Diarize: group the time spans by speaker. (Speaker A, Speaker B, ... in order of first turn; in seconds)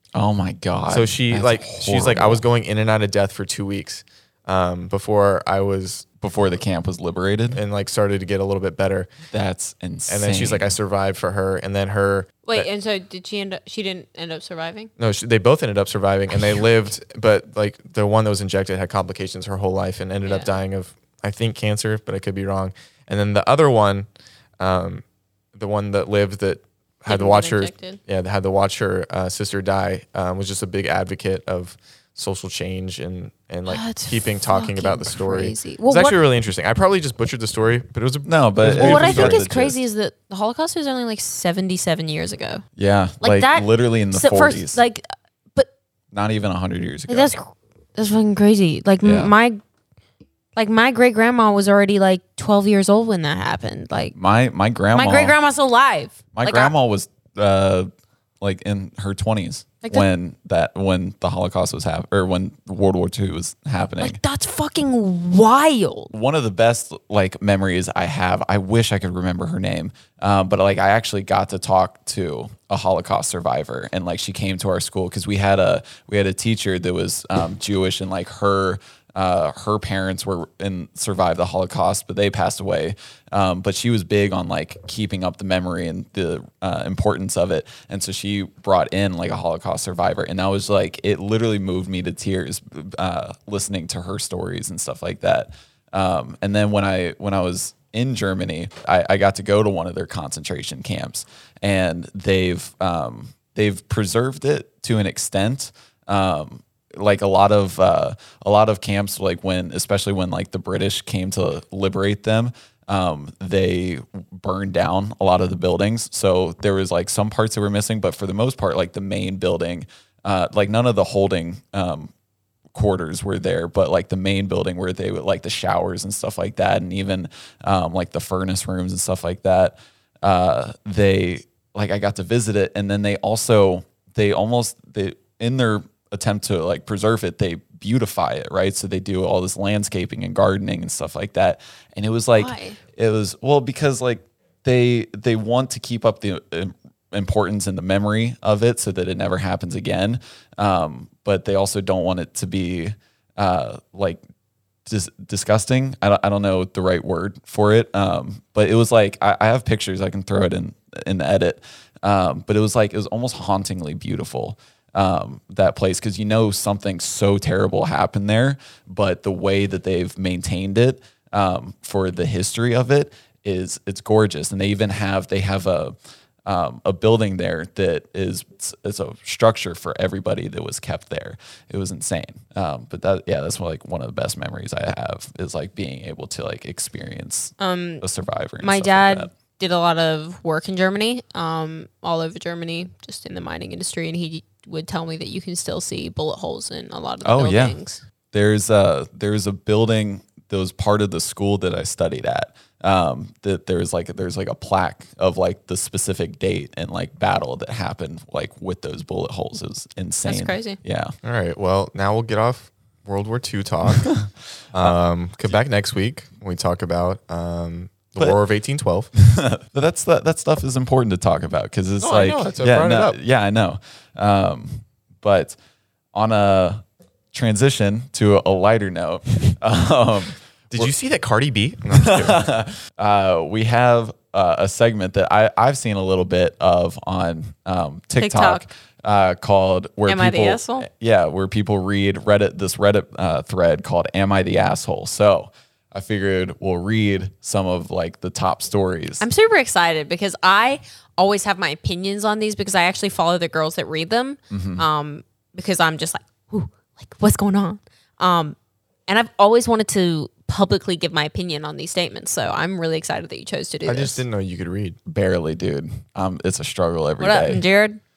Speaker A: 0.1-2.4, 6.2-7.6, 9.3-10.7, 38.2-39.8, 42.8-44.8, 46.1-47.3, 49.0-49.3, 54.1-55.3, 56.3-57.9, 58.4-64.2, 66.1-122.1, 122.7-154.2, 154.8-175.9, 176.4-189.3, 197.2-197.8, 198.3-211.1, 214.0-214.3, 219.2-225.6, 226.1-226.8, 227.3-230.9, 231.9-249.2, 254.5-254.8, 265.1-267.6
Speaker B: 0.9-6.1, 7.5-9.1, 10.1-12.7, 15.0-24.1, 24.6-39.4, 211.2-214.2, 214.7-219.1, 222.0-223.2, 230.7-232.4, 263.8-264.9
Speaker C: 12.4-14.9, 20.2-20.5, 27.1-28.0, 33.7-36.2, 38.7-42.6, 43.2-45.7, 47.1-49.6, 50.5-54.1, 54.9-56.7, 64.0-66.1, 142.4-142.8, 187.6-188.0, 188.6-198.0, 210.2-210.8, 238.2-238.7, 240.1-240.9, 249.2-258.6, 259.1-264.2, 267.2-268.0